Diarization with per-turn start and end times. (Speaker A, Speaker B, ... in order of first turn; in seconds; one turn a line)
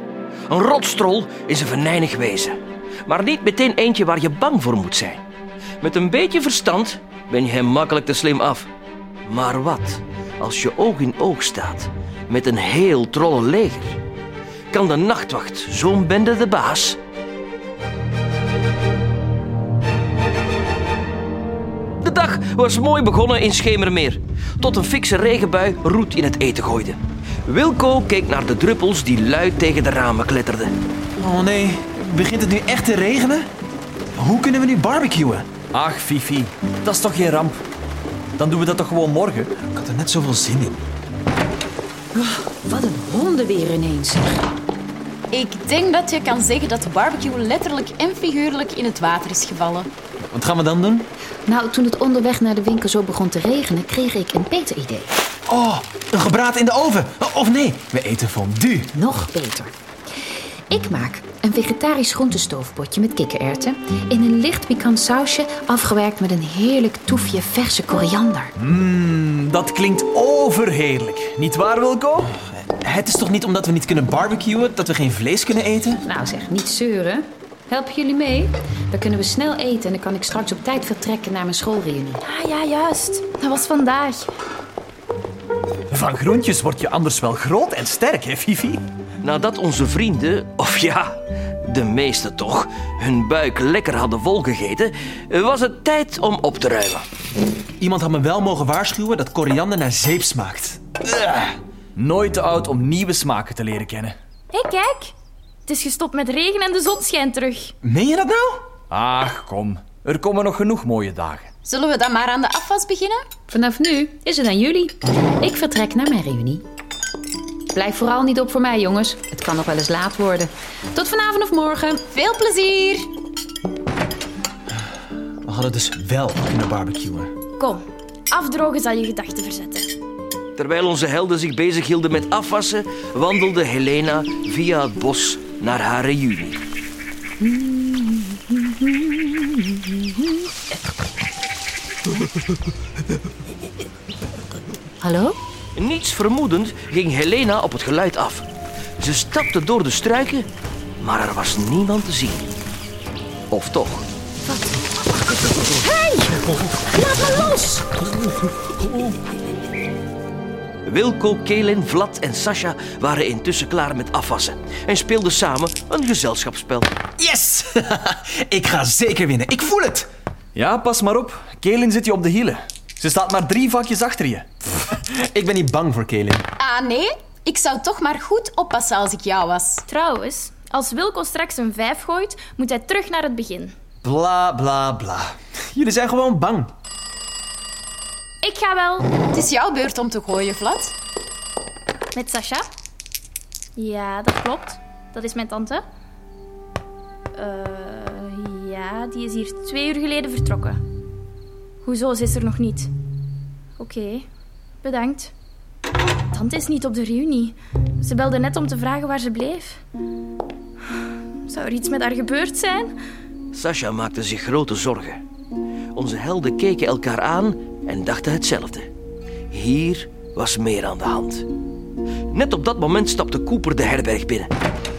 Speaker A: 0.5-5.2
Speaker A: 5.8-8.7
Speaker A: 9.3-14.0
Speaker A: 14.7-17.0
Speaker A: 22.0-30.7
Speaker B: 31.2-33.5
Speaker B: 34.1-35.5
Speaker C: 35.7-37.6
Speaker C: 38.4-39.5
Speaker B: 39.7-40.8
Speaker D: 42.1-44.4
Speaker E: 45.3-49.9
Speaker B: 50.3-51.0
Speaker D: 51.5-55.1
Speaker B: 55.5-59.0
Speaker D: 59.0-59.7
Speaker D: 60.7-68.5
Speaker C: 68.6-72.3
Speaker B: 72.7-76.0
Speaker D: 76.0-82.2
Speaker F: 82.2-84.3
Speaker C: 85.9-88.8
Speaker A: 89.2-97.0
Speaker B: 97.8-101.5
Speaker C: 102.0-104.1
Speaker F: 104.5-105.1
Speaker F: 105.7-107.7
Speaker B: 107.8-108.6
Speaker C: 108.9-111.5
Speaker E: 111.6-113.2
Speaker D: 113.5-116.6
Speaker D: 117.7-122.0
Speaker E: 122.1-123.1
Speaker B: 125.4-127.3
Speaker F: 127.6-129.9
Speaker A: 130.6-136.6
Speaker D: 137.4-138.4
Speaker D: 145.0-145.3
Speaker A: 145.8-148.4
Speaker A: 149.0-150.5
Speaker A: 151.0-152.5
Speaker A: 153.5-154.1
Speaker E: 155.8-156.4
Speaker E: 156.9-157.8
Speaker A: 160.8-166.9
Speaker B: 167.2-170.1
Speaker C: 170.5-174.4
Speaker B: 175.0-176.4
Speaker E: 176.6-179.8
Speaker F: 179.9-183.7
Speaker B: 184.0-186.7
Speaker F: 188.4-189.1
Speaker E: 189.2-190.9
Speaker F: 192.1-192.7
Speaker F: 193.8-195.8
Speaker F: 197.4-200.8
Speaker F: 201.8-202.9
Speaker F: 203.8-204.2
Speaker F: 204.8-205.3
Speaker F: 206.3-209.8
Speaker F: 211.5-212.9
Speaker A: 213.5-215.2
Speaker A: 215.9-218.9
Speaker A: 219.5-221.5
Speaker A: 222.3-224.5